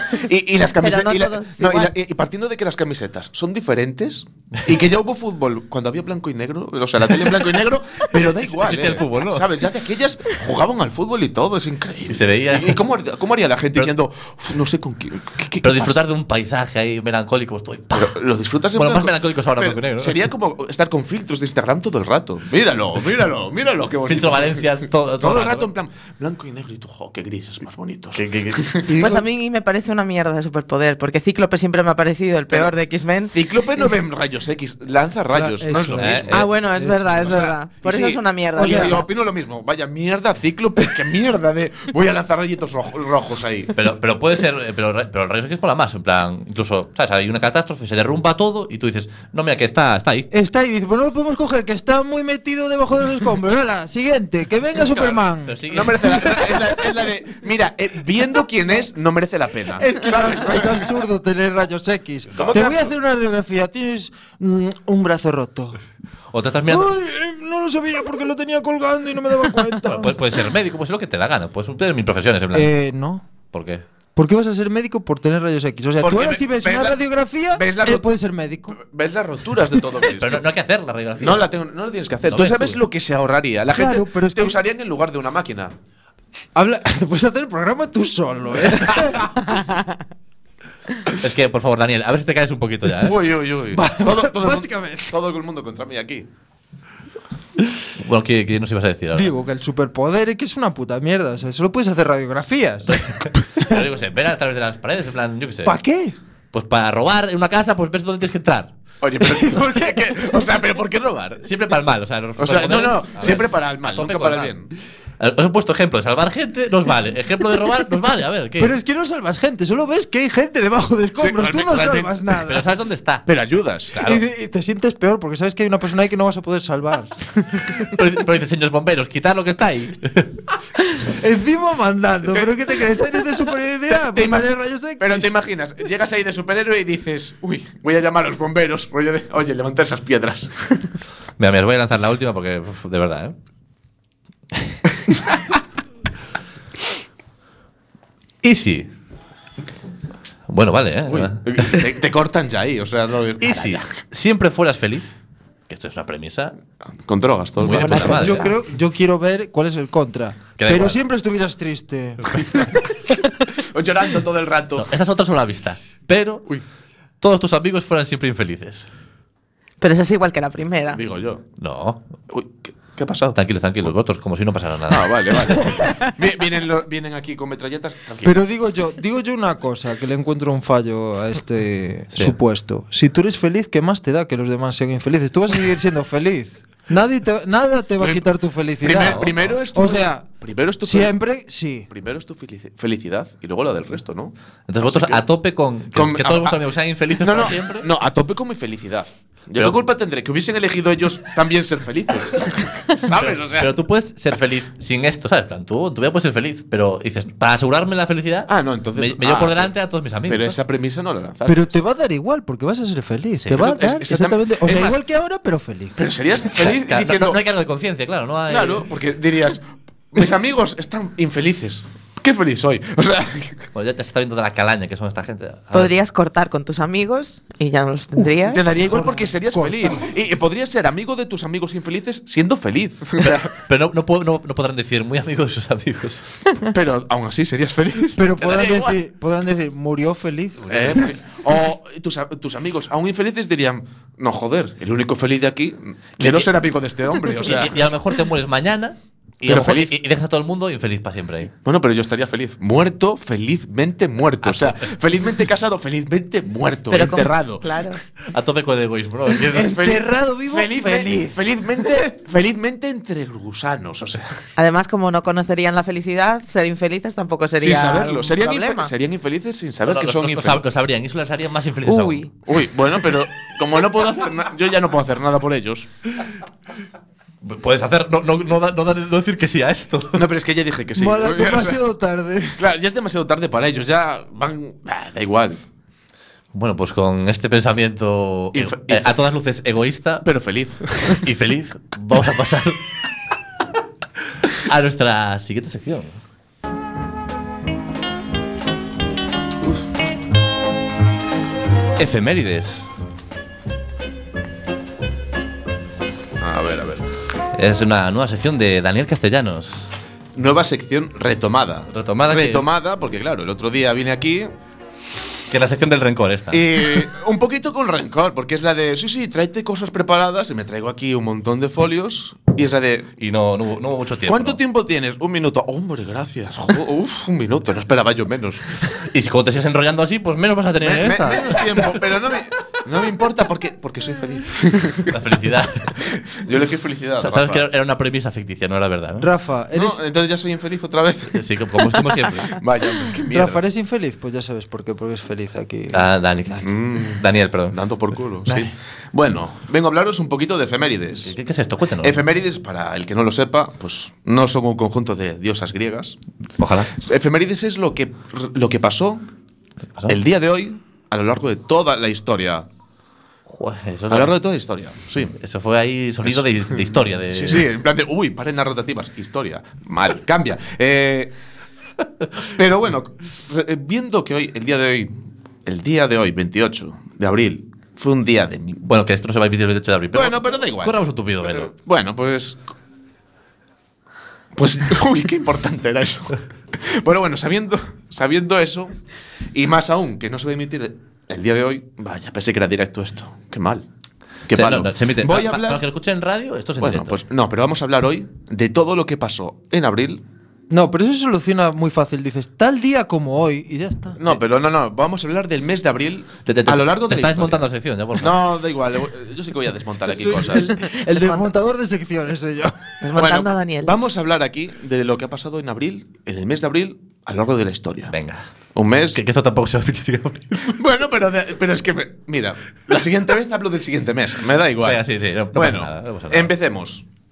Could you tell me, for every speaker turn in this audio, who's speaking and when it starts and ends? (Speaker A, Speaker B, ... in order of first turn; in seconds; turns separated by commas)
Speaker A: 0.1-16.0, Speaker B: 0.8-1.9, Speaker C: 8.2-9.5, Speaker C: 12.1-12.8, Speaker C: 15.6-18.1, Speaker A: 17.9-28.9, Speaker C: 18.7-20.2, Speaker C: 24.1-25.7, Speaker C: 28.1-28.8, Speaker D: 28.9-29.2, Speaker B: 28.9-33.3, Speaker A: 33.3-36.5, Speaker D: 35.3-37.4, Speaker C: 36.0-36.5, Speaker B: 36.3-39.0, Speaker A: 37.2-43.9, Speaker D: 38.6-39.0, Speaker C: 43.7-50.3, Speaker D: 50.3-55.6, Speaker A: 54.8-60.9, Speaker C: 55.5-56.4, Speaker D: 59.8-65.8, Speaker A: 62.3-62.9, Speaker C: 66.3-66.9, Speaker D: 66.7-70.1, Speaker C: 69.8-72.7, Speaker D: 72.5-73.2, Speaker C: 73.5-73.8, Speaker D: 74.2-78.8, Speaker A: 76.0-78.1, Speaker A: 78.7-80.4, Speaker C: 80.1-81.5, Speaker A: 81.2-85.7, Speaker C: 82.2-82.8, Speaker D: 83.7-84.6, Speaker D: 86.5-89.5, Speaker A: 88.7-89.2, Speaker C: 91.2-93.2, Speaker A: 92.9-96.3, Speaker D: 93.7-95.1, Speaker C: 98.0-99.3, Speaker D: 99.2-103.7, Speaker C: 102.9-105.7, Speaker D: 105.6-106.1, Speaker C: 106.5-108.7, Speaker A: 109.0-111.5, Speaker D: 109.4-110.4, Speaker C: 111.4-114.5, Speaker A: 112.4-114.7, Speaker C: 115.2-118.7, Speaker D: 118.6-122.6, Speaker A: 121.2-122.2, Speaker C: 122.4-123.2, Speaker A: 123.2-124.0, Speaker C: 123.9-124.2, Speaker D: 124.0-127.9, Speaker C: 127.8-130.3, Speaker D: 131.0-135.3, Speaker A: 133.9-140.9, Speaker C: 141.4-143.3, Speaker C: 148.4-148.9, Speaker C: 150.5-151.9, Speaker A: 151.1-153.9, Speaker C: 153.4-155.1, Speaker C: 155.7-156.6, Speaker A: 157.1-158.4, Speaker C: 157.6-158.5, Speaker B: 157.8-158.5, Speaker D: 158.1-162.3, Speaker C: 160.6-161.0, Speaker C: 162.2-162.7, Speaker A: 163.5-164.9, Speaker C: 164.8-166.5, Speaker C: 167.2-168.9, Speaker B: 169.8-171.0, Speaker A: 170.9-171.4, Speaker C: 171.6-172.0, Speaker A: 172.3-173.4, Speaker C: 173.3-175.6, Speaker A: 174.9-178.4, Speaker D: 178.2-190.2, Speaker A: 188.0-188.2, Speaker A: 188.8-191.2, Speaker C: 188.9-189.5, Speaker D: 190.8-191.9, Speaker A: 191.9-195.2, Speaker C: 194.7-197.9, Speaker A: 195.9-196.6, Speaker A: 197.2-203.8, Speaker C: 203.0-210.6, Speaker A: 208.5-209.7, Speaker A: 210.2-211.7, Speaker D: 211.4-216.0, Speaker C: 213.4-213.8, Speaker A: 213.5-214.9, Speaker A: 215.9-217.4, Speaker C: 216.6-218.9, Speaker A: 218.5-223.7, Speaker C: 223.7-225.9, Speaker B: 225.7-228.6, Speaker D: 228.2-230.0, Speaker A: 228.4-233.5, Speaker C: 233.2-236.3, Speaker A: 236.7-239.0, Speaker D: 238.2-241.0, Speaker A: 240.7-247.8, Speaker C: 240.7-241.0, Speaker C: 246.2-246.4, Speaker C: 247.4-251.5, Speaker A: 249.4-250.0, Speaker A: 251.6-257.9, Speaker C: 254.4-254.9, Speaker B: 256.9-258.0, Speaker C: 258.3-259.8, Speaker D: 259.5-262.0, Speaker A: 259.5-264.3, Speaker B: 264.6-268.9, Speaker A: 267.6-270.6, Speaker C: 269.9-272.2, Speaker B: 271.9-272.3, Speaker A: 272.4-275.9, Speaker C: 277.4-280.2, Speaker A: 280.1-281.8, Speaker D: 280.9-282.6, Speaker A: 282.6-285.6, Speaker C: 286.5-290.3, Speaker A: 288.5-289.2, Speaker A: 290.2-291.3, Speaker C: 291.1-292.8, Speaker C: 294.5-296.2, Speaker C: 302.0-302.9, Speaker A: 306.4-307.1, Speaker C: 307.5-309.9, Speaker A: 310.3-314.5, Speaker C: 311.9-312.6, Speaker C: 315.5-317.1, Speaker A: 316.5-323.1, Speaker C: 323.2-324.6, Speaker A: 324.2-328.7, Speaker C: 328.9-332.0, Speaker A: 330.8-335.2, Speaker C: 335.0-336.0, Speaker A: 335.9-337.7, Speaker C: 337.2-339.3, Speaker D: 339.2-340.0, Speaker A: 339.7-343.6, Speaker C: 341.3-342.6, Speaker D: 343.3-346.0, Speaker C: 345.9-347.8, Speaker A: 346.6-351.3, Speaker C: 351.2-352.2, Speaker A: 352.0-356.2, Speaker C: 356.6-356.9, Speaker A: 357.0-359.2, Speaker A: 360.1-362.7, Speaker C: 363.5-364.3, Speaker A: 364.1-365.3, Speaker C: 365.3-367.7, Speaker A: 366.2-371.3, Speaker A: 372.5-378.9, Speaker C: 378.8-381.7, Speaker A: 380.1-382.6, Speaker A: 384.5-389.0, Speaker A: 389.5-393.9, Speaker A: 394.5-395.8, Speaker C: 394.5-397.2, Speaker A: 396.8-400.2, Speaker D: 400.7-404.2, Speaker A: 404.2-407.6, Speaker C: 406.4-408.4, Speaker A: 408.2-410.9, Speaker D: 410.1-412.8, Speaker B: 411.0-411.4, Speaker B: 413.0-413.9, Speaker A: 413.1-418.1, Speaker C: 418.1-418.4, Speaker A: 418.7-419.2, Speaker C: 419.1-420.7, Speaker A: 420.6-425.0, Speaker C: 424.8-426.5, Speaker A: 425.5-427.0